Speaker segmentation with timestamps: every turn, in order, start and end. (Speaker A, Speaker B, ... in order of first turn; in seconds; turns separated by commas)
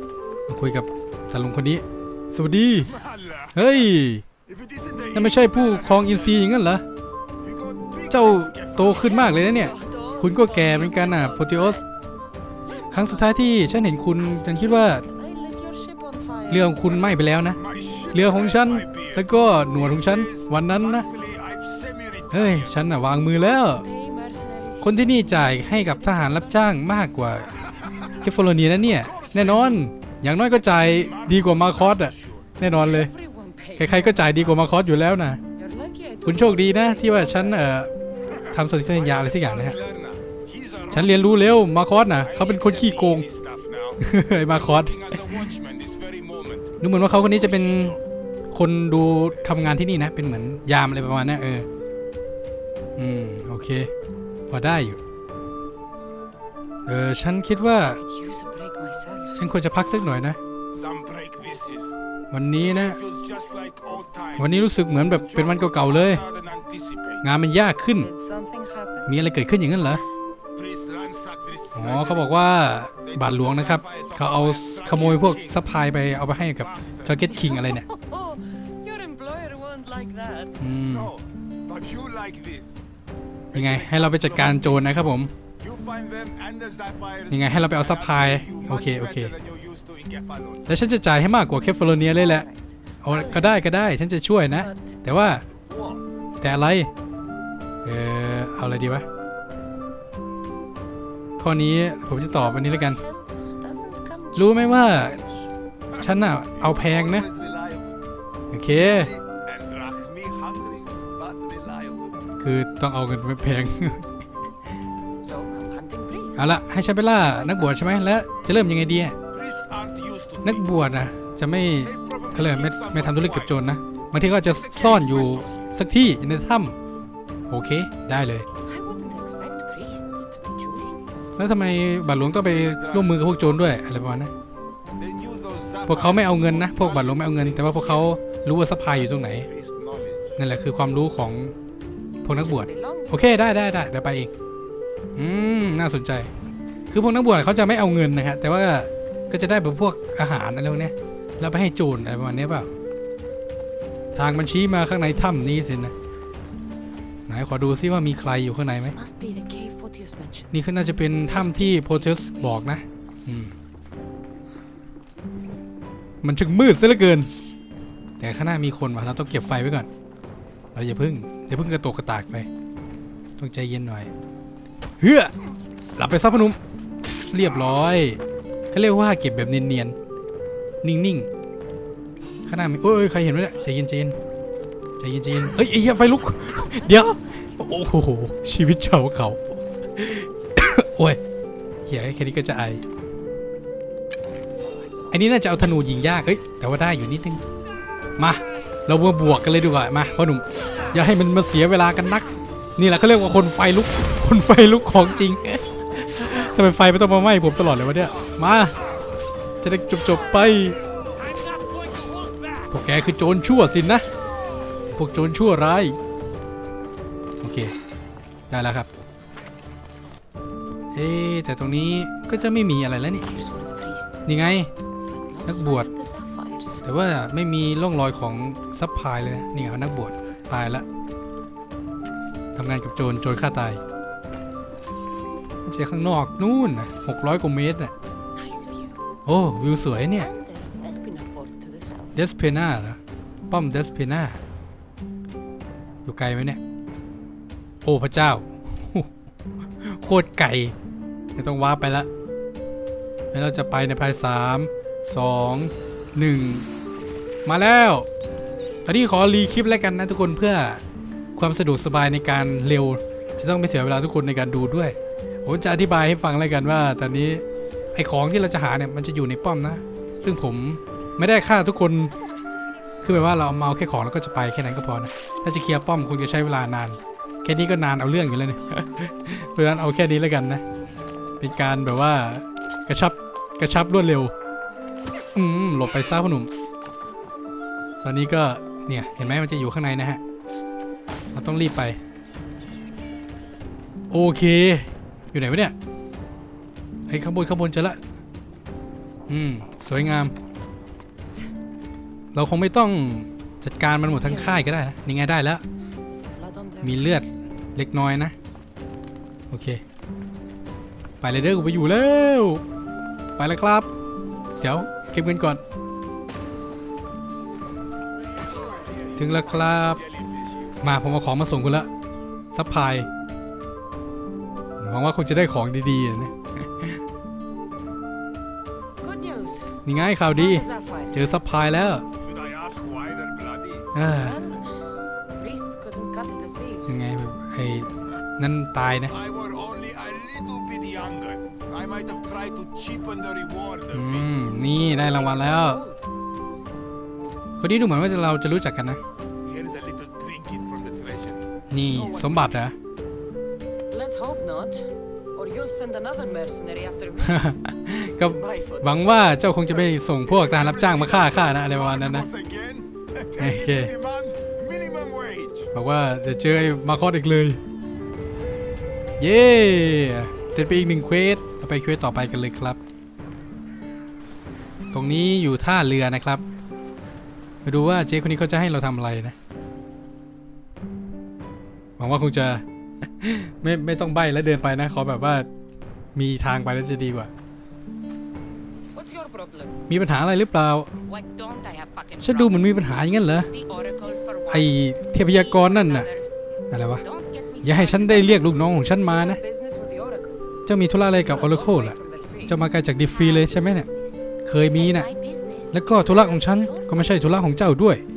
Speaker A: 0.5-3.0, Speaker A: 3.5-4.3, Speaker B: 4.5-5.1, Speaker A: 5.1-6.8, Speaker B: 7.5-8.1, Speaker A: 8.1-11.8, Speaker C: 8.8-11.9, Speaker C: 12.6-16.8, Speaker A: 12.9-15.1, Speaker A: 16.5-21.1, Speaker B: 17.8-18.6, Speaker B: 21.1-22.3, Speaker A: 22.3-23.9, Speaker C: 23.5-26.5, Speaker A: 24.8-33.1, Speaker B: 31.5-32.0, Speaker C: 32.8-34.9, Speaker A: 33.8-35.4, Speaker C: 35.5-37.7, Speaker A: 36.2-37.9, Speaker A: 38.5-39.8, Speaker B: 39.1-40.8, Speaker A: 40.9-43.3, Speaker B: 42.4-43.8, Speaker A: 44.0-45.5, Speaker B: 45.0-46.6, Speaker A: 46.8-48.0, Speaker A: 48.5-51.7, Speaker A: 53.0-53.9, Speaker A: 54.5-55.0, Speaker A: 56.9-58.0, Speaker C: 57.8-59.5, Speaker A: 59.3-60.4, Speaker B: 60.7-61.9, Speaker A: 62.3-63.0, Speaker B: 63.0-64.3, Speaker A: 64.4-66.2, Speaker B: 65.5-67.2, Speaker A: 67.2-68.1, Speaker C: 68.0-69.2, Speaker A: 69.1-70.0, Speaker B: 70.6-72.1, Speaker A: 71.7-77.8, Speaker B: 73.4-75.3, Speaker C: 77.1-80.6, Speaker A: 80.6-81.1, Speaker B: 81.7-82.8, Speaker A: 83.5-85.3, Speaker B: 83.9-84.2, Speaker B: 85.6-87.3, Speaker A: 87.3-89.4, Speaker B: 88.1-90.5, Speaker A: 90.7-92.5, Speaker C: 92.1-93.7, Speaker A: 93.0-95.4, Speaker C: 94.5-95.0, Speaker A: 96.4-96.9, Speaker A: 97.8-99.1, Speaker A: 101.4-103.0, Speaker C: 102.2-105.5, Speaker A: 104.4-105.2, Speaker A: 106.0-107.3, Speaker B: 107.3-107.9, Speaker A: 108.5-109.2, Speaker B: 109.5-112.0, Speaker A: 112.4-114.1, Speaker C: 115.2-116.4, Speaker A: 116.4-119.2, Speaker C: 117.3-117.9, Speaker B: 119.3-120.4, Speaker A: 120.4-126.8, Speaker B: 122.0-123.3, Speaker B: 124.9-125.4, Speaker A: 127.5-128.5, Speaker C: 128.7-131.6, Speaker A: 131.4-134.3, Speaker B: 135.1-136.1, Speaker A: 135.9-139.5, Speaker B: 136.7-137.8, Speaker B: 139.5-140.2, Speaker A: 140.4-141.6, Speaker A: 142.2-144.3, Speaker C: 142.3-143.4, Speaker A: 145.2-146.3, Speaker A: 146.9-152.7, Speaker A: 154.2-155.9, Speaker A: 157.3-159.0, Speaker C: 158.7-160.6, Speaker A: 160.5-163.6, Speaker C: 161.2-162.7, Speaker A: 166.2-167.3, Speaker A: 168.2-169.9, Speaker A: 170.7-172.5, Speaker A: 173.4-174.1, Speaker A: 175.0-175.3, Speaker A: 176.0-176.6, Speaker A: 177.3-178.2, Speaker A: 178.7-180.0, Speaker A: 180.8-181.3, Speaker A: 182.5-184.2, Speaker A: 185.0-191.2, Speaker C: 186.7-187.1, Speaker A: 191.8-192.8, Speaker A: 195.1-197.4, Speaker A: 198.2-208.8, Speaker A: 209.6-210.8, Speaker A: 212.7-214.1, Speaker A: 214.9-216.0, Speaker A: 217.4-217.7, Speaker A: 218.5-218.9, Speaker A: 220.9-223.3, Speaker C: 223.2-224.3, Speaker A: 224.3-224.7, Speaker C: 225.1-226.9, Speaker A: 225.5-225.9, Speaker A: 226.8-230.8, Speaker A: 232.6-233.8, Speaker A: 235.7-237.9, Speaker C: 238.3-239.0, Speaker A: 239.2-240.3, Speaker C: 240.1-242.2, Speaker A: 242.2-243.0, Speaker A: 243.5-244.4, Speaker A: 246.1-246.6, Speaker A: 247.8-249.1, Speaker A: 249.8-250.8, Speaker A: 251.4-252.1, Speaker A: 253.3-256.7, Speaker A: 257.4-258.1, Speaker A: 258.9-260.8, Speaker A: 261.4-267.4, Speaker A: 267.9-272.1, Speaker A: 273.0-280.6, Speaker A: 281.4-284.3, Speaker A: 285.4-286.5, Speaker A: 288.0-290.2, Speaker A: 291.3-292.0, Speaker A: 294.1-295.8, Speaker A: 297.1-298.0, Speaker A: 299.3-300.3, Speaker A: 302.3-305.6, Speaker C: 304.2-304.7, Speaker C: 306.0-307.2, Speaker A: 306.8-308.4, Speaker A: 309.5-309.8, Speaker A: 311.2-312.6, Speaker A: 313.4-313.9, Speaker A: 314.6-315.6, Speaker C: 318.5-319.1, Speaker A: 319.2-320.0, Speaker A: 320.8-321.9, Speaker A: 322.5-323.1, Speaker A: 324.8-327.0, Speaker C: 329.0-331.4, Speaker A: 329.9-332.1, Speaker B: 332.3-333.9, Speaker A: 333.9-334.4, Speaker C: 334.0-337.0, Speaker A: 336.9-339.2, Speaker B: 339.2-343.9, Speaker A: 343.9-345.8, Speaker C: 344.8-346.1, Speaker A: 347.6-349.0, Speaker B: 349.5-351.4, Speaker A: 351.7-352.8, Speaker C: 352.1-352.5, Speaker C: 353.9-357.5, Speaker A: 357.2-362.3, Speaker C: 358.3-359.2, Speaker B: 360.4-365.6, Speaker A: 363.4-363.9, Speaker A: 365.7-367.6, Speaker A: 369.2-372.8, Speaker A: 374.9-376.4, Speaker A: 377.6-379.4, Speaker A: 382.0-382.6, Speaker A: 383.2-385.5, Speaker A: 386.1-387.3, Speaker C: 388.9-389.8, Speaker A: 389.9-390.9, Speaker C: 391.1-392.7, Speaker A: 392.2-393.5, Speaker C: 393.5-394.6, Speaker A: 394.5-396.1, Speaker C: 395.3-396.2, Speaker A: 396.7-397.1, Speaker C: 397.1-400.5, Speaker A: 397.6-399.4, Speaker A: 400.7-403.9, Speaker C: 401.2-402.6, Speaker C: 403.1-407.5, Speaker A: 404.4-405.1, Speaker A: 405.7-408.0